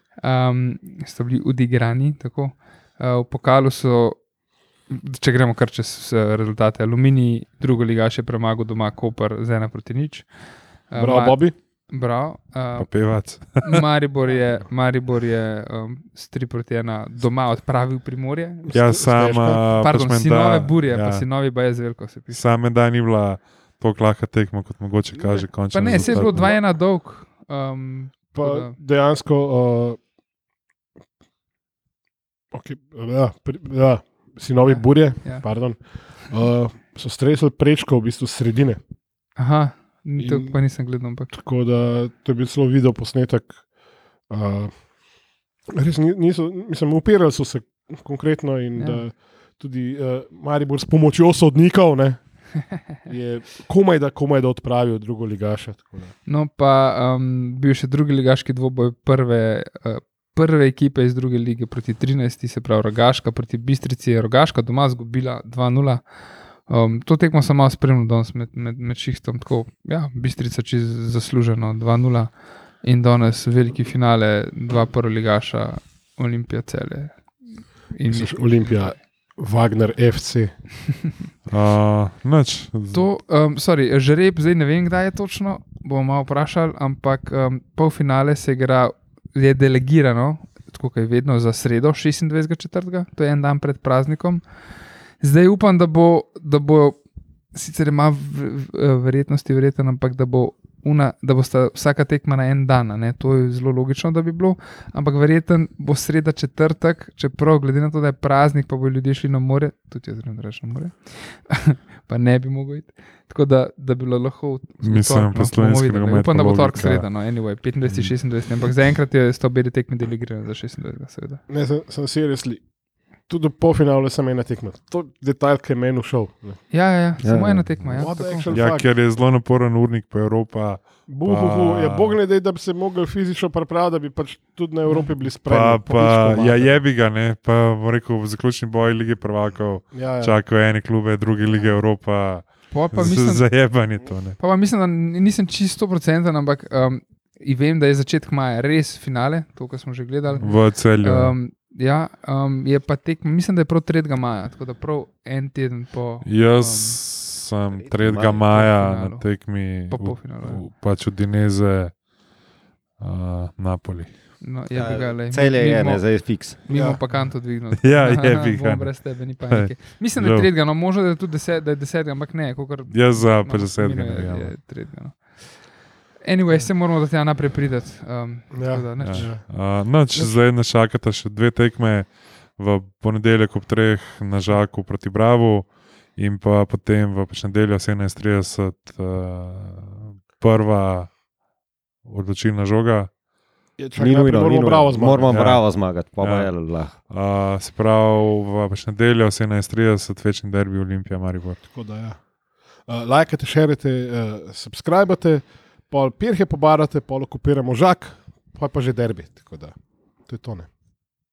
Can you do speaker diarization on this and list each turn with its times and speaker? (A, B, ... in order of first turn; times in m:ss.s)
0:00.2-0:04.2 A
0:04.9-0:10.3 A
0:10.9-0:12.9 A
0:11.0-0:11.6 B
0:12.8-0:13.8 C
0:13.6-0:18.7 A
0:18.6-0:19.7 B
0:18.7-0:21.2 C
0:19.8-0:22.4 A
0:22.3-0:26.6 C
0:25.6-0:28.7 A
0:25.9-0:26.4 B
0:28.3-0:30.0 B
0:32.5-0:38.8 B
0:34.6-0:35.4 A
0:39.4-0:41.3 A
0:40.2-0:40.6 B
0:41.3-0:43.6 B
0:44.3-0:44.7 B
0:45.7-0:52.2 B
0:48.8-0:49.0 A
0:52.9-0:56.1 B
0:56.2-1:06.0 A
1:06.7-1:19.0 A
1:18.1-1:20.5 B
1:21.5-1:23.1 C
1:22.9-1:34.4 A
1:35.2-1:37.0 A
1:37.5-2:01.4 A
1:54.8-1:57.1 C
1:57.8-1:58.1 C
2:01.5-2:02.6 B
2:03.3-2:06.6 B
2:06.7-2:08.5 A
2:07.2-2:08.1 D
2:08.0-2:08.9 B
2:08.5-2:12.2 C
2:11.1-2:16.8 B
2:15.2-2:24.4 C
2:19.9-2:20.4 B
2:22.7-2:23.6 A
2:24.4-2:37.0 A
2:30.4-2:31.4 C
2:36.2-2:41.9 C
2:37.7-2:38.5 D
2:38.5-2:40.6 A
2:43.0-2:44.1 C
2:44.4-2:55.2 A
2:44.7-2:46.6 D
2:46.7-2:47.0 B
2:47.7-2:50.5 C
2:52.9-2:54.5 C
2:56.2-2:59.3 A
2:58.5-2:59.5 B
2:59.0-3:11.1 C
3:00.1-3:00.4 B
3:12.1-3:13.1 C
3:13.8-3:15.4 B
3:14.0-3:16.9 D
3:15.3-3:15.6 C
3:16.2-3:16.5 C
3:17.1-3:21.6 C
3:21.6-3:22.2 B
3:22.9-3:30.7 B